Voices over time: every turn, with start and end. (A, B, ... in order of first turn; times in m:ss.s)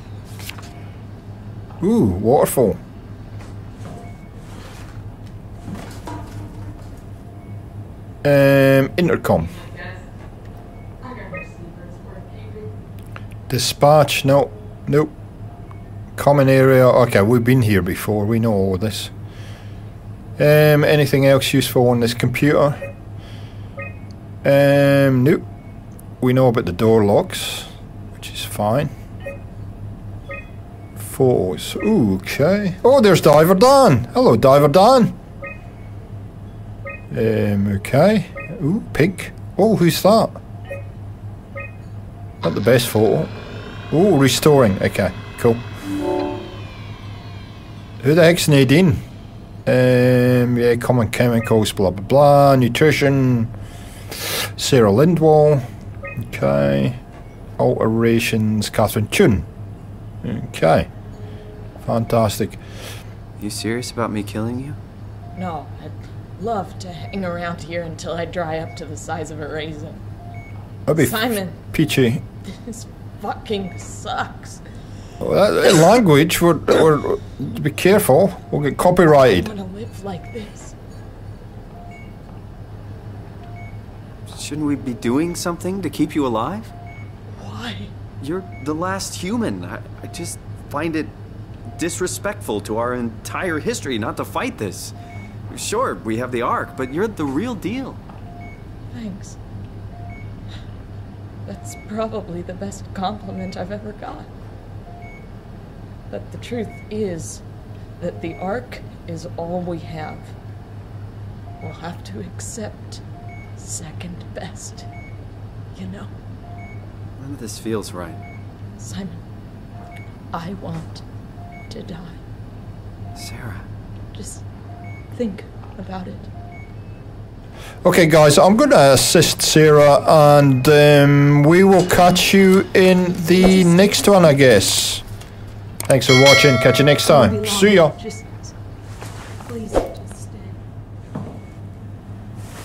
0:01.8-0:02.8 A
0:08.2-0:09.6 A
0:09.5-0:10.0 B
0:11.0-0:12.7 B
0:13.5-0:15.1 A
0:16.2-0:19.1 A
0:20.4-0:22.8 A
0:24.4-0:25.4 A
0:26.2-0:28.9 A
0:31.0-0:35.2 A
0:37.1-0:40.4 A
0:42.4-0:43.3 A
0:43.9-0:45.6 A
0:48.0-0:49.0 A
0:49.7-0:53.5 A
0:54.6-0:55.6 A
0:56.2-0:57.0 A
0:57.6-0:59.5 A
1:00.2-1:00.9 A
1:01.8-1:02.6 A
1:03.4-1:04.8 C
1:05.4-1:10.0 B
1:10.9-1:12.2 A
1:11.0-1:11.6 B
1:12.4-1:14.6 B
1:15.2-1:19.5 A
1:19.1-1:20.7 B
1:24.3-1:26.7 C
1:27.3-1:27.9 B
1:28.2-1:31.1 C
1:31.8-1:35.0 C
1:35.5-1:38.0 C
1:38.9-1:39.4 B
1:41.5-1:44.3 B
1:46.1-1:47.4 B
1:48.0-1:50.3 B
1:51.6-1:53.0 B
1:53.6-1:54.9 B
1:55.7-1:56.1 B
1:57.2-1:58.2 C
1:58.8-1:59.2 B
2:00.3-2:01.0 B
2:01.7-2:02.2 B
2:03.2-2:03.7 C
2:04.1-2:04.4 B
2:05.1-2:06.3 B
2:07.8-2:15.0 A
2:13.2-2:14.6 B
2:15.9-2:18.0 A
2:17.0-2:18.5 B
2:19.4-2:20.6 B